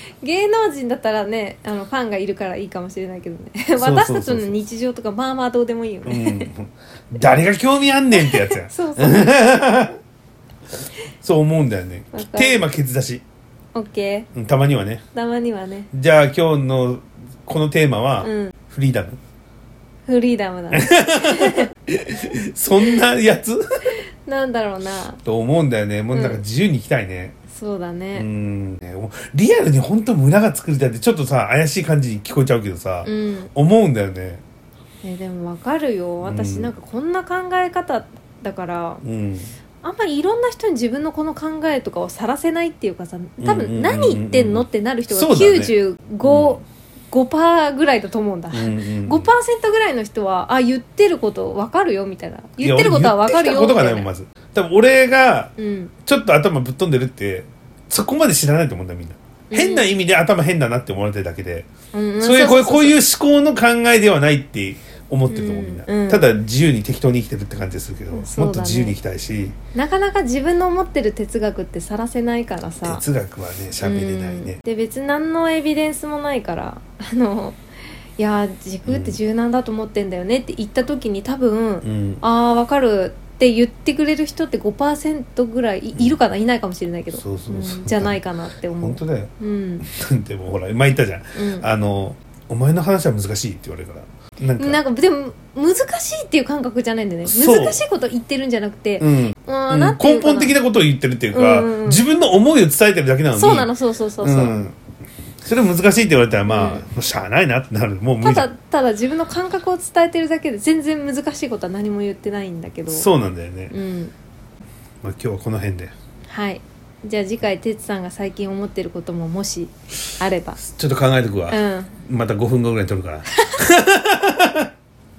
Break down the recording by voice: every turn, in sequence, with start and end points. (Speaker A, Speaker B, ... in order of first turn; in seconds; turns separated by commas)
Speaker A: 0.2-6.5, Speaker B: 3.8-4.5, Speaker B: 6.1-10.0, Speaker A: 8.1-9.3, Speaker B: 11.2-13.2, Speaker A: 12.1-12.6, Speaker A: 13.8-14.3, Speaker B: 14.3-15.0, Speaker A: 15.1-15.9, Speaker B: 15.9-19.2, Speaker A: 18.2-18.6, Speaker A: 20.1-21.7, Speaker B: 20.7-23.9, Speaker A: 24.0-25.2, Speaker B: 25.2-27.4, Speaker A: 26.1-26.4, Speaker A: 27.5-28.3, Speaker B: 28.1-34.4, Speaker A: 33.0-33.5, Speaker A: 35.0-39.0, Speaker B: 36.2-36.7, Speaker B: 39.0-39.5, Speaker A: 39.8-54.1, Speaker B: 43.4-46.6, Speaker B: 48.5-49.3, Speaker B: 52.6-55.5, Speaker A: 55.6-55.9, Speaker B: 56.1-61.7, Speaker A: 59.5-59.9, Speaker A: 61.9-63.0, Speaker B: 62.2-69.5, Speaker A: 65.3-66.2, Speaker A: 68.1-69.0, Speaker A: 69.8-73.0, Speaker B: 72.8-74.6, Speaker A: 73.8-77.6, Speaker A: 78.2-89.9, Speaker B: 78.9-79.2, Speaker B: 81.8-82.2, Speaker B: 87.1-88.2, Speaker B: 88.8-89.3, Speaker B: 89.8-94.8, Speaker A: 91.4-91.7, Speaker A: 94.6-100.6, Speaker B: 97.2-97.8, Speaker B: 99.0-103.7, Speaker A: 101.3-102.0, Speaker A: 103.3-104.6, Speaker B: 104.2-104.8, Speaker B: 105.4-108.5, Speaker A: 106.5-106.9, Speaker A: 108.2-113.1, Speaker B: 112.9-113.8, Speaker A: 113.7-114.1, Speaker B: 115.0-115.9, Speaker A: 116.3-120.6, Speaker B: 120.6-124.7, Speaker A: 121.5-122.0